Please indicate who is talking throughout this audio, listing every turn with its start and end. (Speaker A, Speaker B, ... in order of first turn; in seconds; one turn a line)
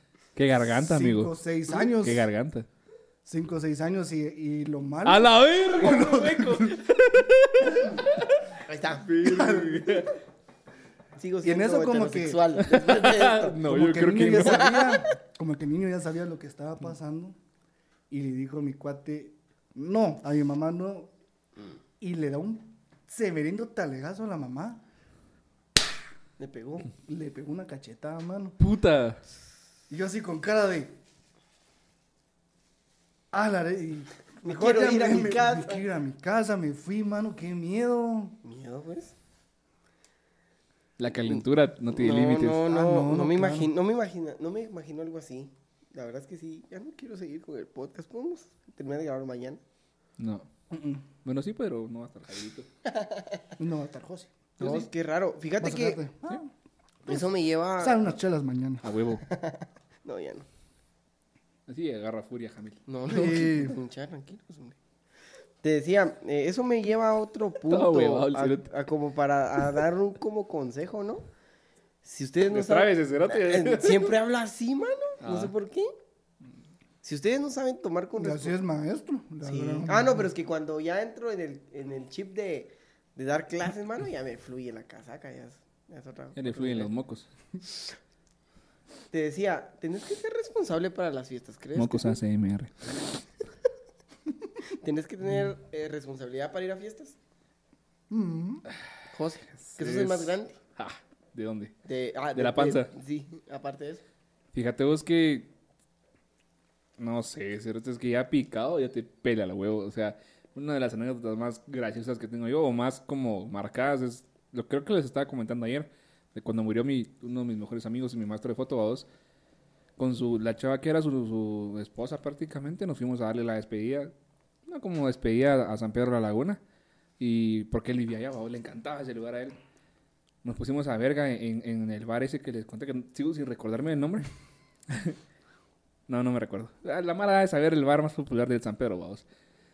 Speaker A: 0.3-1.3
Speaker B: 0.6-2.3
Speaker A: 1.8-2.7
Speaker B: 3.2-6.8
Speaker A: 5.0-10.1
Speaker C: 8.7-9.1
Speaker B: 9.2-10.1
Speaker C: 11.2-13.6
Speaker B: 11.4-12.5
Speaker A: 12.6-14.9
Speaker B: 13.6-17.4
Speaker C: 14.4-15.1
Speaker B: 18.1-21.1
Speaker B: 22.0-24.8
Speaker C: 26.4-26.9
Speaker B: 27.0-28.6
Speaker A: 28.6-29.2
Speaker B: 29.9-30.9
Speaker B: 33.3-38.4
Speaker C: 34.4-35.8
Speaker C: 38.4-39.1
Speaker A: 41.0-42.7
Speaker C: 41.3-49.6
Speaker B: 42.6-43.7
Speaker A: 50.2-50.5
Speaker B: 50.7-51.0
Speaker A: 51.2-52.7
Speaker C: 52.9-53.4
Speaker B: 53.6-54.9
Speaker C: 54.6-56.0
Speaker B: 55.6-56.5
Speaker C: 57.0-58.0
Speaker B: 57.8-58.8
Speaker A: 58.8-59.2
Speaker C: 59.2-60.5
Speaker A: 61.7-62.8
Speaker C: 62.9-64.8
Speaker B: 63.1-63.8
Speaker C: 65.6-71.2
Speaker A: 67.7-68.7
Speaker C: 72.0-75.9
Speaker A: 72.5-74.1
Speaker A: 75.2-75.5
Speaker C: 77.0-78.5
Speaker B: 78.2-80.3
Speaker C: 79.4-86.9
Speaker A: 86.3-87.3
Speaker C: 89.1-92.2
Speaker A: 91.8-92.9
Speaker C: 94.7-97.2
Speaker B: 98.1-98.6
Speaker C: 99.1-100.6
Speaker A: 99.6-101.7
Speaker C: 101.8-104.0
Speaker A: 102.3-102.9
Speaker A: 104.5-105.5
Speaker A: 107.0-119.1
Speaker A: 120.0-124.1
Speaker A: 124.7-126.6
Speaker A: 127.2-129.6
Speaker A: 130.4-134.3
Speaker A: 134.9-135.2
Speaker A: 136.1-139.2